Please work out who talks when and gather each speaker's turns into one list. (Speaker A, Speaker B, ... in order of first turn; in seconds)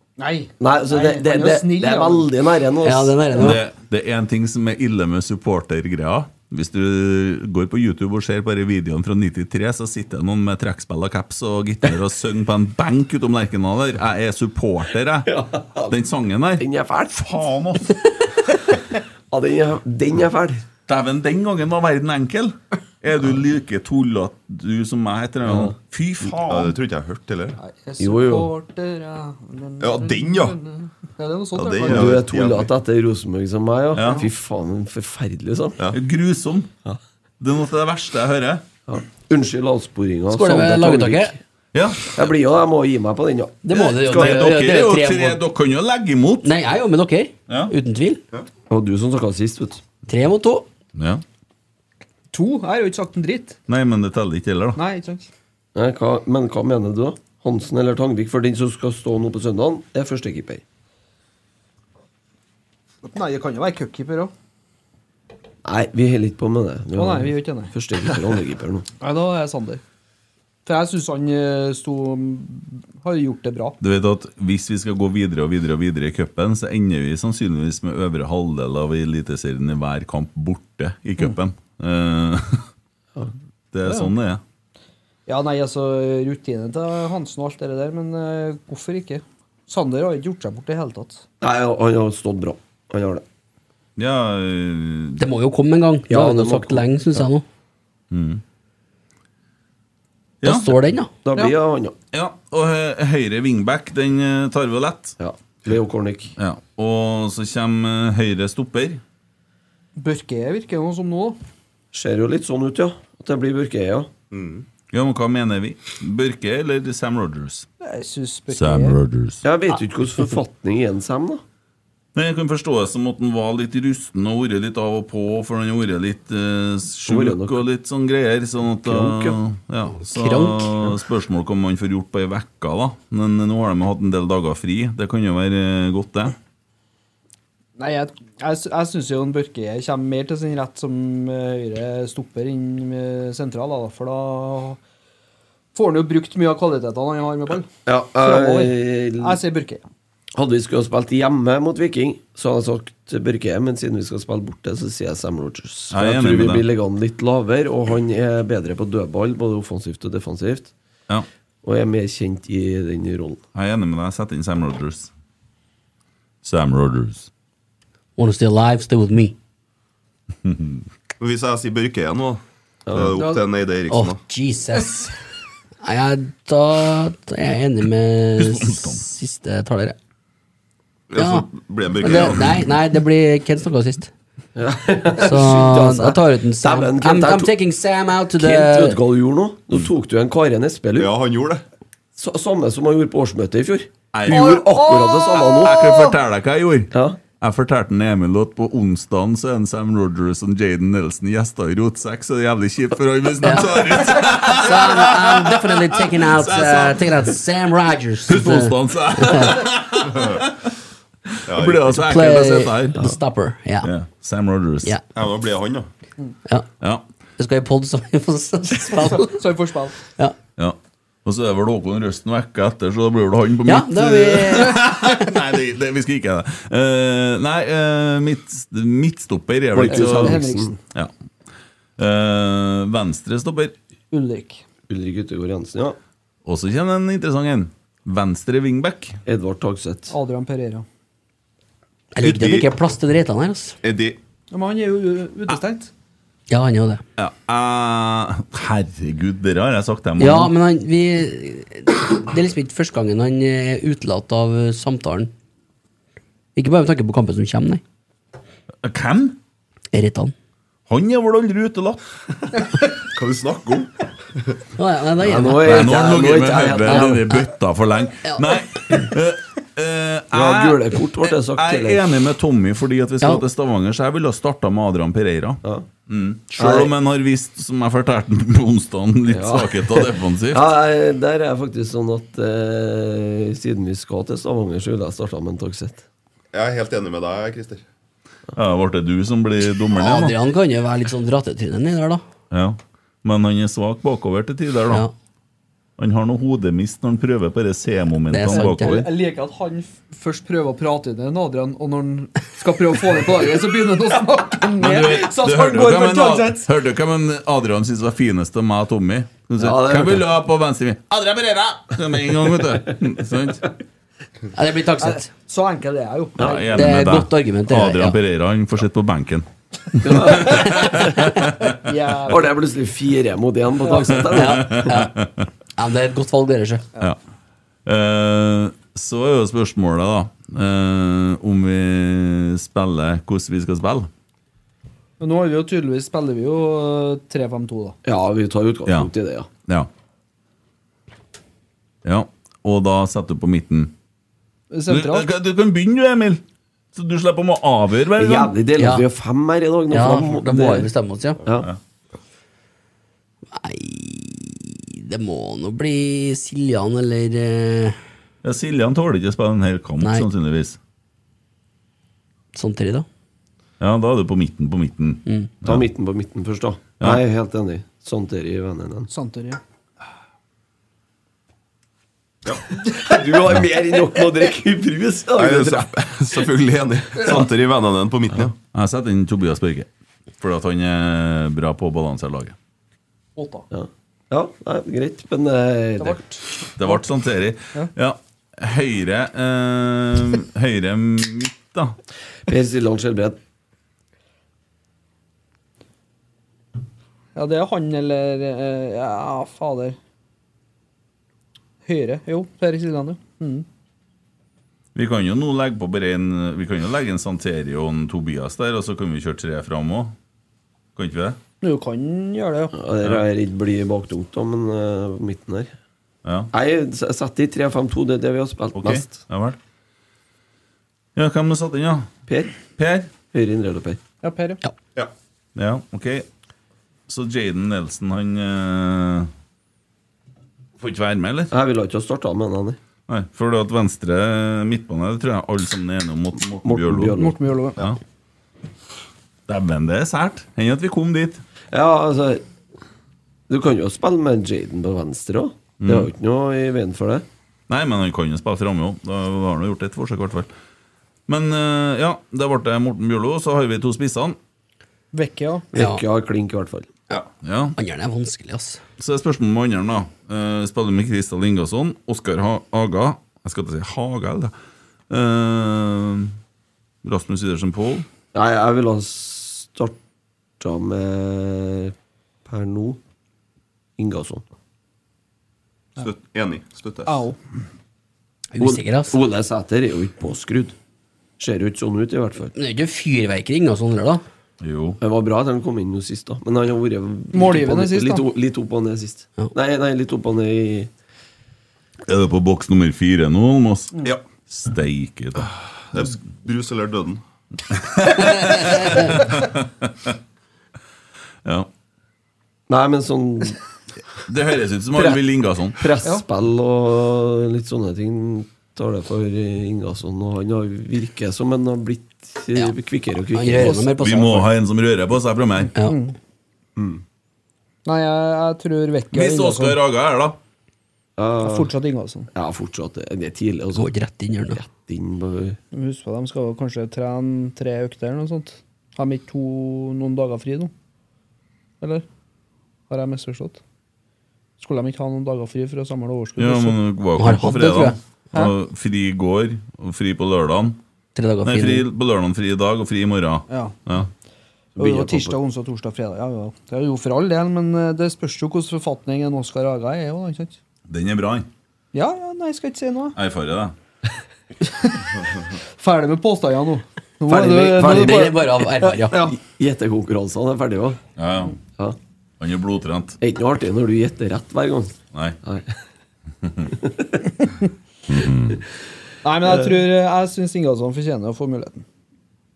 Speaker A: 0.2-2.3, 27.6-32.1, 52.3-53.6, 54.8-55.3, 63.0-64.3, 67.0-67.7, 69.0-69.8, 70.7-73.8, 83.8-84.1, 85.3-91.2, 110.0-111.4, 117.8-119.0, 137.8-144.8, 145.7-149.9, 194.3-196.1, 219.0-219.9, 229.9-230.8, 234.1-234.6, 240.1-240.8, 244.5-245.9, 298.5-306.7, 315.0-316.7, 321.8-322.6, 335.2-338.0, 344.7-345.3, 369.1-369.6, 383.4-383.6, 386.0-387.0, 397.3-400.0, 401.8-403.6, 411.6-412.7, 424.2-424.6, 437.2-437.8, 455.1-455.7, 477.1-477.4, 487.3-488.3, 515.8-516.1, 517.9-519.8, 521.4-522.3, 525.7-530.7, 531.8-532.0, 532.9-533.6, 534.6-536.8, 543.5-543.8, 544.8-550.6, 551.9-553.1, 554.6-555.1, 555.8-558.4, 559.1-559.4, 569.2-571.8
Speaker B: 0.6-3.5, 15.2-15.9, 16.6-17.3, 19.3-20.6, 25.4-25.8, 28.0-28.5, 31.8-35.8, 38.9-41.4, 42.1-44.3, 48.7-49.8, 55.7-60.6, 65.6-68.9, 91.4-93.2, 96.1-96.8, 101.2-101.9, 105.2-106.3, 111.9-114.1, 119.4-121.4, 127.0-127.7, 128.8-129.4, 147.8-149.4, 150.3-160.7, 161.6-163.4, 172.9-173.2, 184.6-187.5, 188.4-191.1, 192.2-195.9, 196.9-197.2, 229.7-230.7, 234.9-236.0, 239.2-240.1, 265.2-267.2, 270.3-272.0, 276.5-276.9, 279.3-286.0, 309.6-310.2, 316.4-316.7, 320.0-321.2, 322.3-324.9, 338.0-339.5, 348.1-350.9, 351.4-351.7, 365.6-369.1, 372.9-375.9, 383.7-386.2, 392.5-393.4, 412.7-415.7, 416.5-419.2, 422.3-422.5, 423.2-424.0, 431.5-432.8, 436.6-437.4, 441.7-442.4, 443.5-447.2, 455.7-456.9, 468.3-470.0, 470.6-471.9, 472.4-473.0, 474.0-474.4, 478.6-480.7, 481.4-482.5, 485.0-490.9, 502.7-503.6, 504.9-505.2, 505.8-513.9, 516.8-517.0, 521.2-521.7, 522.3-523.9, 524.5-525.6, 544.8-545.4, 557.3-561.0, 563.2-565.7, 566.8-567.1, 569.4-569.8
Speaker C: 2.8-3.6, 40.3-41.3, 43.6-45.4, 46.4-48.2, 50.1-50.7, 95.2-97.4, 100.4-101.1, 130.1-130.8, 168.2-169.3, 173.9-175.1, 175.8-179.9, 181.2-181.5, 182.0-184.1, 185.2-189.0, 203.4-209.6, 212.1-213.9, 217.4-219.4, 223.7-224.9, 242.1-243.8, 246.5-247.0, 250.2-255.3, 256.6-257.8, 259.9-260.3, 264.8-266.0, 266.9-267.4, 268.2-269.0, 289.9-292.2, 298.3-299.0, 314.5-315.3, 316.7-318.2, 320.7-321.4, 324.2-325.1, 325.8-326.8, 348.8-349.0, 349.9-351.4, 353.5-358.0, 362.5-363.1, 455.8-456.0, 457.8-458.8, 478.5-479.2, 482.5-484.2, 513.3-514.5, 523.7-524.6, 537.2-538.0, 541.1-541.9, 557.8-559.2
Speaker D: 3.4-15.3, 15.9-18.0, 20.9-26.7, 33.9-34.2, 35.9-36.7, 37.4-38.6, 41.7-42.2, 43.7-46.5, 47.5-47.7, 50.9-51.2, 53.7-54.8, 73.8-82.7, 83.7-84.4, 94.0-95.2, 98.1-98.4, 100.4-100.7, 102.1-105.2, 106.4-109.0, 114.9-117.7, 118.5-119.4, 122.1-136.3, 155.9-156.7, 163.5-165.1, 166.4-167.3, 170.4-170.8, 178.4-179.0, 194.1-194.6, 195.6-207.2, 208.3-210.5, 211.4-213.0, 213.8-214.9, 220.6-230.4, 232.0-233.8, 236.4-239.2, 247.2-250.5, 258.8-259.4, 260.9-262.0, 265.6-280.6, 288.5-290.4, 292.5-295.1, 296.0-299.1, 304.8-313.6, 316.4-321.7, 324.4-325.4, 327.9-334.1, 342.0-343.9, 344.9-346.4, 346.9-348.5, 358.4-360.8, 363.8-365.8, 378.7-379.9, 380.4-382.5, 386.8-391.9, 404.9-410.1, 410.9-411.4, 416.2-416.5, 418.8-419.6, 421.1-422.1, 422.8-423.1, 425.6-426.2, 427.1-429.3, 430.8-431.5, 433.1-437.2, 439.5-441.4, 445.8-446.1, 447.7-450.5, 451.3-454.4, 457.4-457.7, 459.0-464.5, 465.1-466.3, 467.0-468.1, 484.6-485.0, 492.1-493.9, 494.5-495.6, 497.9-500.1, 504.3-505.8, 514.0-515.7, 519.1-520.4, 536.4-540.8, 541.4-544.1, 550.9-551.5, 553.1-553.7, 561.2-561.6, 562.4-563.2, 566.4-566.7, 568.1-568.6
Speaker E: 26.4-27.6, 29.8-30.6, 31.5-32.7, 114.3-114.6, 171.2-174.2, 181.1-182.6, 191.0-191.6, 211.4-212.1, 215.1-215.9, 242.2-242.7, 243.8-244.2, 263.1-263.9, 286.5-287.8, 375.3-378.5, 476.0-477.2, 495.9-497.2